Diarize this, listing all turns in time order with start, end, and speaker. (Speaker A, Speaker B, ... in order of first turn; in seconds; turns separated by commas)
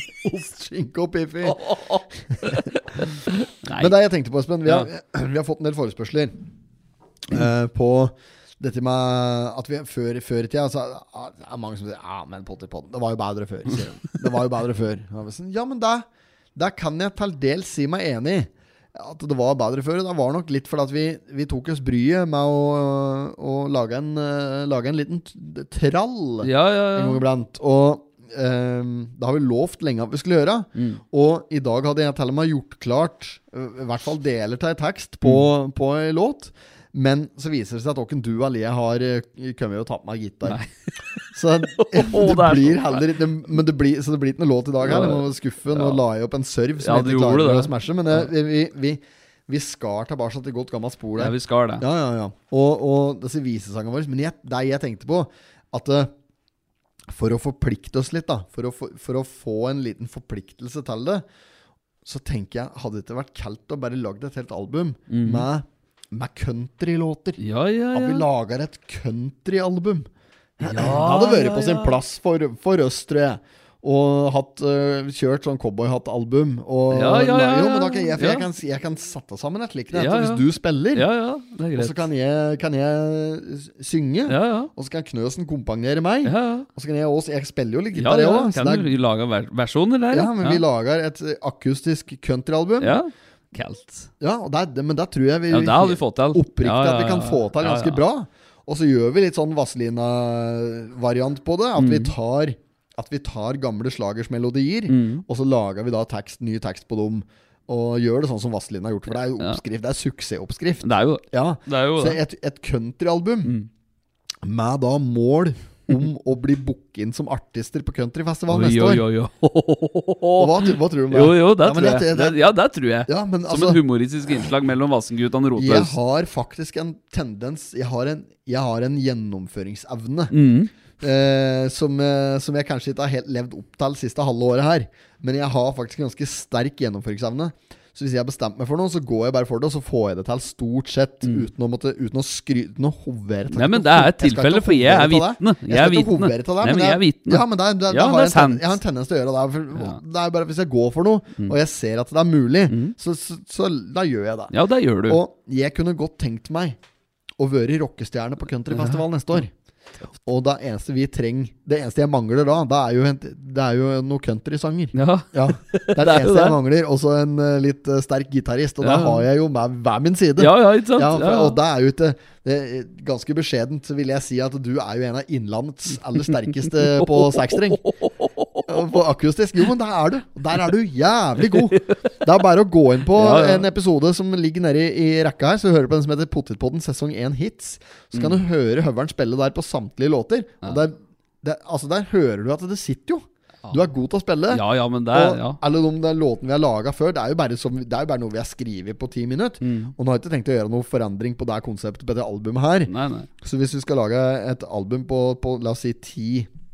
Speaker A: 0.2-3.1, Speaker B: 1.5-4.0, Speaker A: 3.8-6.4, Speaker A: 7.3-40.6, Speaker B: 26.4-27.2, Speaker B: 30.8-31.0, Speaker B: 40.5-40.7, Speaker A: 41.3-56.1, Speaker B: 41.7-43.1, Speaker B: 44.8-46.0, Speaker B: 46.8-48.3, Speaker B: 51.2-51.9, Speaker A: 57.1-61.2, Speaker A: 62.0-67.4, Speaker B: 65.1-65.5, Speaker B: 67.4-68.2, Speaker A: 67.9-81.1, Speaker B: 70.6-72.0, Speaker B: 76.9-78.5, Speaker B: 79.9-80.4, Speaker B: 81.0-82.0, Speaker A: 81.8-88.9, Speaker B: 84.3-84.7, Speaker B: 86.2-86.7, Speaker B: 87.9-90.6, Speaker A: 90.1-93.0, Speaker B: 92.8-94.1, Speaker A: 94.2-113.5, Speaker B: 95.5-98.0, Speaker B: 101.8-102.1, Speaker B: 104.9-105.2, Speaker B: 110.8-112.2, Speaker B: 113.4-113.7, Speaker A: 114.4-119.0, Speaker B: 118.5-126.0, Speaker A: 120.4-122.4, Speaker A: 123.1-123.8, Speaker A: 125.6-130.3, Speaker B: 130.3-130.7, Speaker A: 131.0-154.5, Speaker B: 143.5-148.8, Speaker B: 149.8-150.0, Speaker B: 152.7-153.0, Speaker B: 154.5-155.2, Speaker A: 155.1-156.8, Speaker A: 157.4-159.5, Speaker B: 158.7-159.0, Speaker A: 160.2-177.9, Speaker B: 164.9-166.6, Speaker B: 168.8-169.2, Speaker B: 170.4-171.6, Speaker B: 176.7-178.8, Speaker A: 178.7-206.5, Speaker B: 183.2-183.7, Speaker B: 188.1-188.4, Speaker B: 194.5-195.6, Speaker B: 199.6-199.9, Speaker B: 202.9-203.3